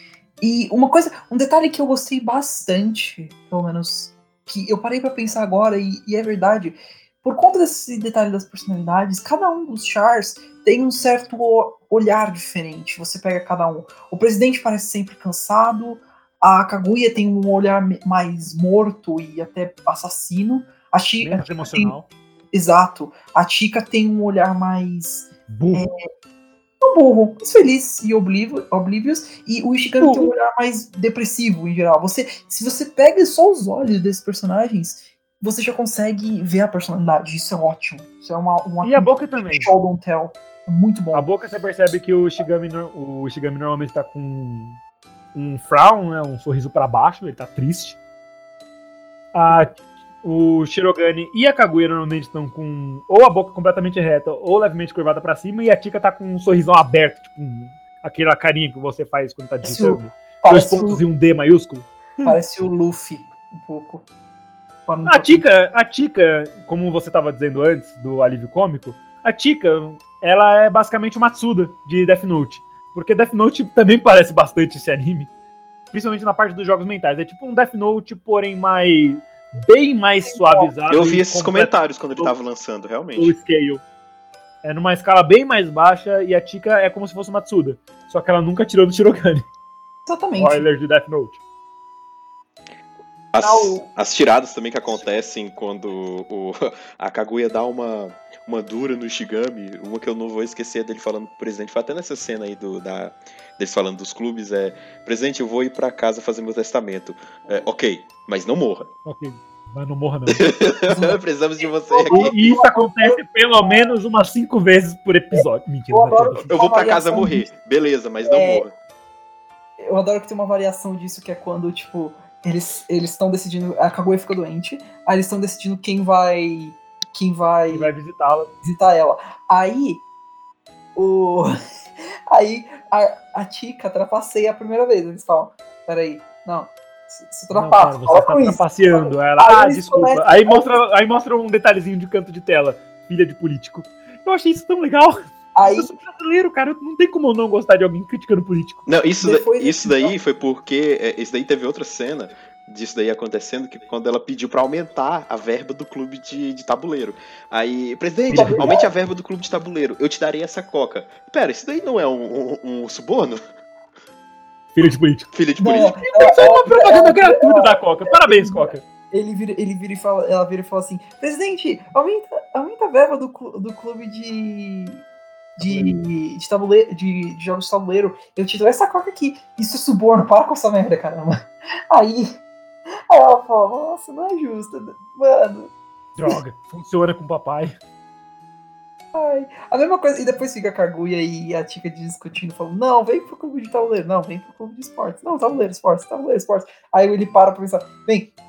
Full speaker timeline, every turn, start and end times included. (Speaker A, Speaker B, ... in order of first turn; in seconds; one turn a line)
Speaker A: 0.4-21.9
Speaker B: 21.2-22.1
Speaker A: 22.5-26.0
Speaker B: 25.5-25.9
Speaker A: 26.8-41.3
Speaker B: 30.0-30.3
Speaker B: 38.8-39.7
Speaker B: 41.1-44.8
Speaker B: 45.3-48.0
Speaker B: 49.3-62.4
Speaker A: 59.6-61.0
Speaker A: 62.2-64.1
Speaker A: 64.9-65.5
Speaker B: 65.1-75.3
Speaker B: 75.9-82.3
Speaker A: 80.2-80.7
Speaker C: 80.9-83.4
Speaker B: 83.2-83.8
Speaker B: 84.6-89.5
Speaker A: 90.1-90.7
Speaker B: 90.4-91.4
Speaker C: 93.3-108.9
Speaker A: 93.4-93.9
Speaker B: 109.0-110.4
Speaker C: 110.3-112.5
Speaker A: 110.9-111.2
Speaker A: 111.9-113.8
Speaker B: 112.1-116.5
Speaker A: 115.3-117.5
Speaker C: 116.5-118.8
Speaker A: 118.3-118.7
Speaker A: 119.8-127.9
Speaker B: 127.7-128.5
Speaker A: 128.6-130.0
Speaker A: 131.0-131.6
Speaker A: 132.3-140.8
Speaker B: 137.5-148.9
Speaker A: 145.6-145.9
Speaker C: 148.9-163.4
Speaker A: 149.2-150.2
Speaker A: 158.3-158.9
Speaker B: 158.3-158.8
Speaker B: 164.8-165.3
Speaker C: 165.3-165.9
Speaker A: 165.6-175.0
Speaker B: 166.0-168.8
Speaker A: 175.6-182.4
Speaker B: 175.6-175.9
Speaker A: 183.1-185.7
Speaker B: 186.2-187.8
Speaker A: 189.1-198.3